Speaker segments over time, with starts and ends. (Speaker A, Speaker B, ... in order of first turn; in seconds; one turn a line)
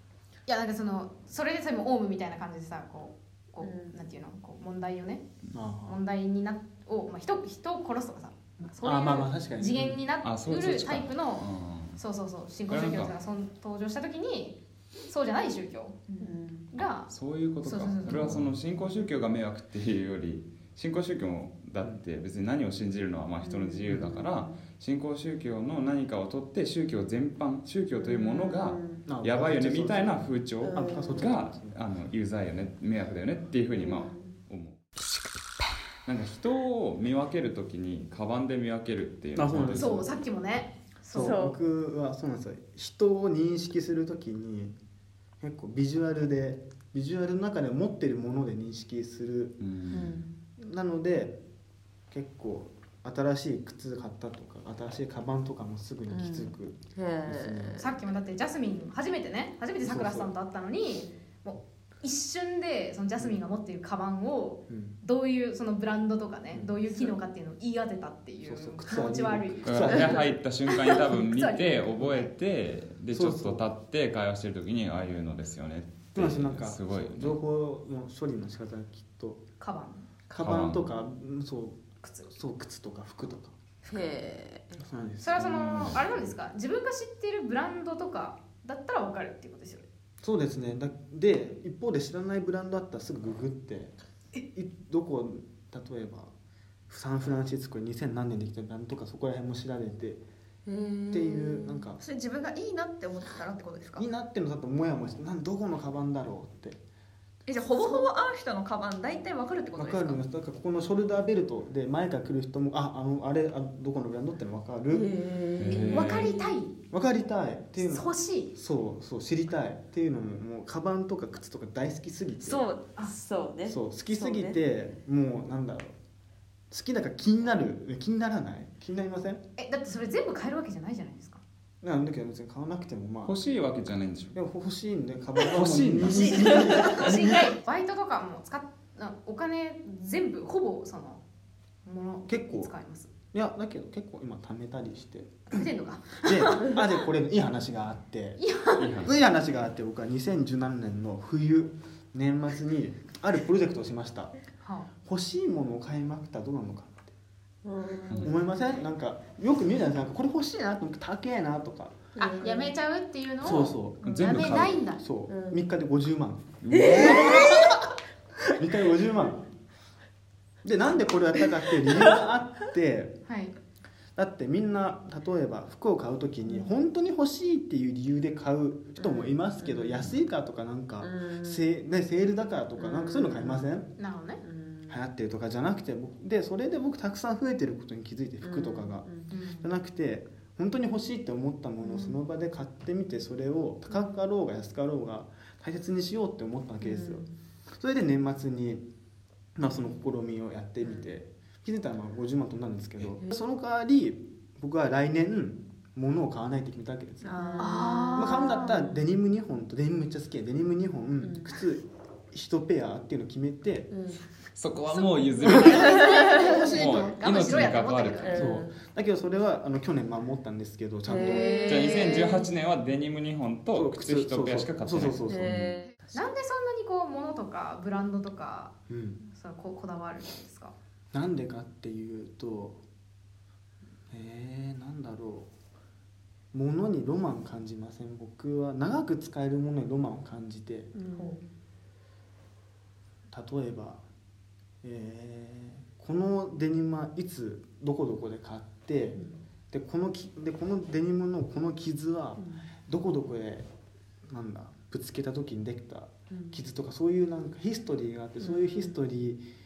Speaker A: 0.5-5.2
Speaker B: 3.6-4.0
Speaker C: 5.5-6.0
Speaker A: 5.8-17.1
Speaker C: 8.8-10.0
Speaker D: 10.2-12.0
Speaker D: 12.7-13.1
Speaker B: 16.2-16.7
Speaker D: 17.1-34.8
Speaker A: 17.6-18.4
Speaker C: 18.2-18.5
Speaker B: 23.4-24.6
Speaker B: 28.0-29.0
Speaker C: 29.1-31.8
Speaker B: 30.6-31.3
Speaker B: 33.7-34.3
Speaker D: 36.0-39.9
Speaker C: 39.3-40.1
Speaker A: 39.7-41.4
Speaker C: 41.1-44.7
Speaker B: 41.1-41.6
Speaker C: 45.4-49.6
Speaker D: 49.6-50.1
Speaker B: 49.9-50.3
Speaker C: 50.6-51.4
Speaker C: 52.1-57.9
Speaker B: 56.1-57.9
Speaker A: 57.8-72.3
Speaker C: 59.8-60.3
Speaker C: 64.7-65.0
Speaker C: 66.5-66.8
Speaker C: 68.4-70.3
Speaker D: 69.6-77.4
Speaker C: 73.1-73.6
Speaker C: 76.1-79.4
Speaker A: 79.6-80.1
Speaker C: 80.3-83.5
Speaker D: 80.4-80.9
Speaker A: 82.0-82.3
Speaker B: 83.9-84.8
Speaker C: 84.8-86.1
Speaker A: 85.2-89.8
Speaker D: 85.3-86.1
Speaker C: 90.2-93.9
Speaker C: 94.5-96.3
Speaker C: 96.9-100.2
Speaker B: 100.7-101.9
Speaker C: 101.1-102.0
Speaker E: 102.0-104.0
Speaker C: 104.0-106.8
Speaker E: 107.5-110.2
Speaker A: 107.8-108.0
Speaker C: 109.8-115.1
Speaker B: 114.9-116.5
Speaker D: 115.6-116.3
Speaker A: 115.7-116.7
Speaker C: 116.9-122.7
Speaker A: 117.8-118.5
Speaker B: 122.4-124.6
Speaker C: 123.6-126.0
Speaker C: 126.7-129.4
Speaker A: 129.6-131.4
Speaker C: 131.8-133.3
Speaker D: 133.2-134.4
Speaker C: 134.3-137.5
Speaker D: 135.5-136.7
Speaker E: 136.1-137.1
Speaker A: 136.2-141.2
Speaker A: 141.8-143.1
Speaker C: 142.2-142.7
Speaker C: 143.3-145.7
Speaker A: 145.5-146.9
Speaker C: 146.2-148.4
Speaker A: 148.4-148.9
Speaker D: 148.8-149.1
Speaker C: 149.0-154.3
Speaker A: 154.6-154.9
Speaker C: 155.0-157.1
Speaker B: 157.6-158.3
Speaker D: 158.1-158.3
Speaker C: 158.2-162.0
Speaker B: 162.2-162.7
Speaker A: 162.2-165.0
Speaker C: 163.4-167.7
Speaker D: 164.0-164.8
Speaker B: 165.3-165.6
Speaker D: 166.6-167.4
Speaker B: 166.7-167.8
Speaker C: 168.6-169.4
Speaker C: 170.6-173.2
Speaker A: 173.3-173.5
Speaker C: 174.2-183.9
Speaker B: 179.0-180.1
Speaker B: 181.0-181.7
Speaker B: 182.8-183.7
Speaker A: 184.0-184.4
Speaker B: 184.4-185.0
Speaker C: 184.9-189.1
Speaker B: 188.4-189.3
Speaker A: 189.3-189.7
Speaker C: 189.6-198.8
Speaker B: 191.8-192.1
Speaker B: 196.8-197.3
Speaker C: 199.6-207.5
Speaker B: 207.2-208.9
Speaker A: 207.6-208.8
Speaker C: 208.1-213.9
Speaker B: 211.2-211.5
Speaker B: 213.9-214.2
Speaker D: 214.5-218.5
Speaker A: 214.9-218.5
Speaker C: 215.4-217.6
Speaker B: 215.5-216.7
Speaker B: 218.2-218.7
Speaker C: 218.3-221.5
Speaker B: 221.1-222.5
Speaker A: 221.1-222.4
Speaker D: 221.6-225.7
Speaker C: 223.7-225.7
Speaker B: 225.3-225.9
Speaker A: 226.1-230.7
Speaker C: 228.9-229.2
Speaker C: 231.1-232.8
Speaker C: 234.1-235.5
Speaker C: 236.5-240.9
Speaker B: 240.9-241.4
Speaker A: 241.1-241.4
Speaker C: 243.3-244.0
Speaker C: 244.8-249.2
Speaker C: 249.7-253.7
Speaker B: 252.4-252.7
Speaker C: 254.2-259.4
Speaker B: 256.3-256.6
Speaker B: 258.4-259.0